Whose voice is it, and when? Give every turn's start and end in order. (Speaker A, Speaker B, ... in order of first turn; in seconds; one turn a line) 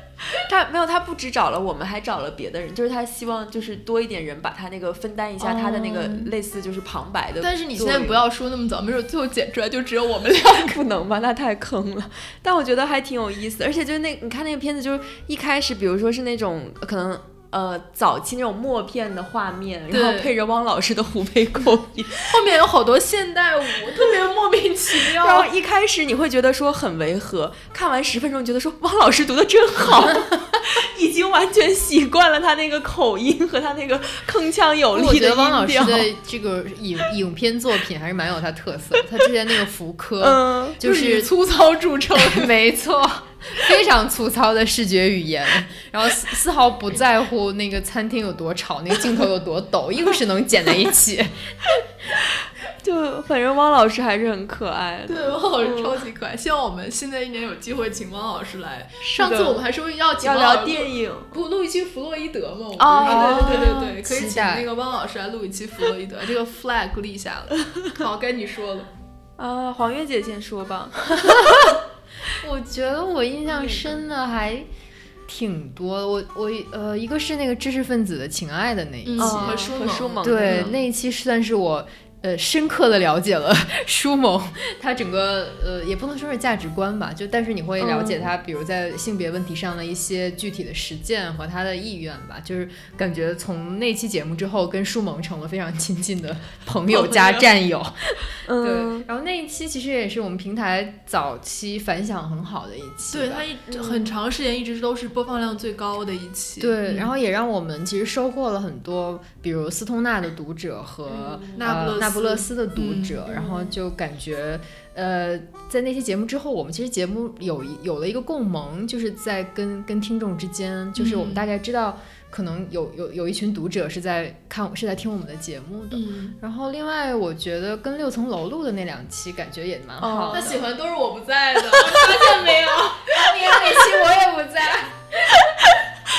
Speaker A: 0.5-8.2
Speaker B: 5.4-6.3
Speaker C: 7.4-10.8
Speaker A: 10.5-22.4
Speaker C: 19.9-20.3
Speaker C: 22.3-25.5
Speaker A: 24.9-36.1
Speaker B: 34.9-41.3
Speaker A: 40.2-40.8
Speaker C: 40.8-42.5
Speaker B: 42.2-51.3
Speaker A: 52.1-56.0
Speaker C: 55.1-68.9
Speaker A: 59.0-59.6
Speaker A: 60.2-61.3
Speaker A: 62.8-64.0
Speaker B: 63.0-64.7
Speaker A: 69.4-71.7
Speaker B: 72.4-74.7
Speaker A: 73.5-73.9
Speaker B: 75.3-79.6
Speaker C: 79.0-80.8
Speaker A: 79.2-80.7
Speaker B: 80.2-103.5
Speaker A: 87.8-88.3
Speaker A: 96.9-97.5
Speaker A: 98.4-99.1
Speaker C: 103.1-107.0
Speaker A: 103.7-104.1
Speaker B: 106.6-130.6
Speaker A: 111.1-111.6
Speaker C: 111.5-113.2
Speaker A: 113.3-113.7
Speaker C: 121.0-121.5
Speaker C: 125.9-126.3
Speaker A: 130.0-130.5
Speaker C: 130.3-134.9
Speaker A: 133.3-134.0